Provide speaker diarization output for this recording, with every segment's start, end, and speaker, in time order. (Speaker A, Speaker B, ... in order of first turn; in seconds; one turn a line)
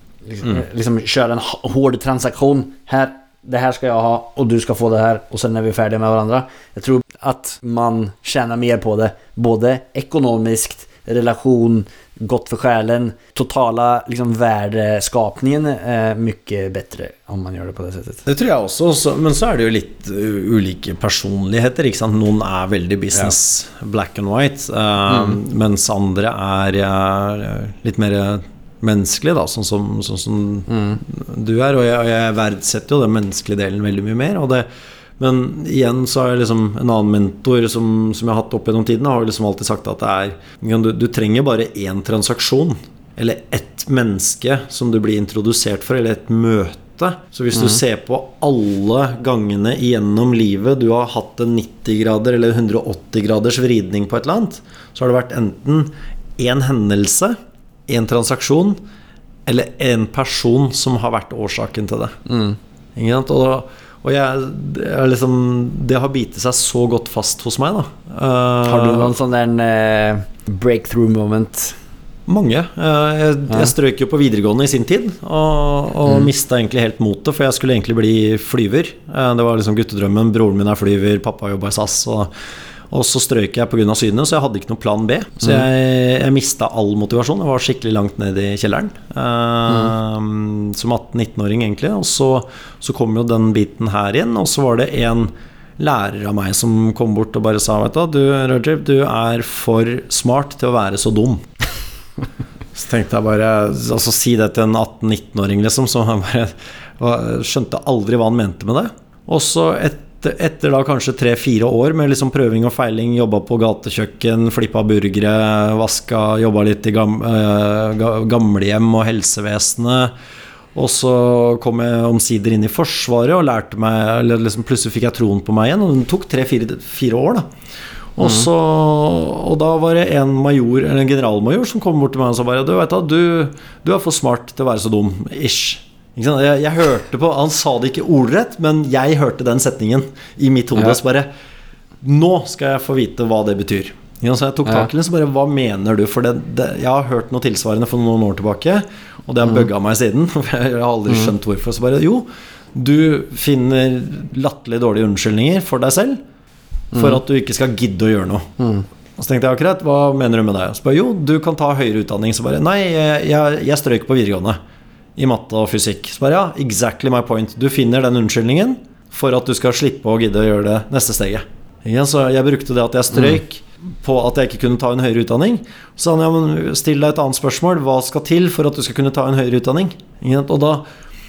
Speaker A: 0.2-18.2
Speaker B: 18.2-34.7
Speaker A: 25.1-25.4
Speaker A: 30.7-31.0
Speaker B: 35.2-58.8
Speaker B: 59.5-62.2
Speaker A: 62.2-62.6
Speaker B: 63.0-69.1
Speaker A: 68.6-71.8
Speaker B: 72.3-82.3
Speaker B: 82.9-101.5
Speaker B: 102.7-120.1
Speaker B: 120.7-127.5
Speaker B: 128.2-141.3
Speaker B: 142.0-156.2
Speaker A: 156.9-157.2
Speaker B: 156.9-158.5
Speaker A: 158.6-158.8
Speaker B: 159.2-164.6
Speaker B: 165.2-180.8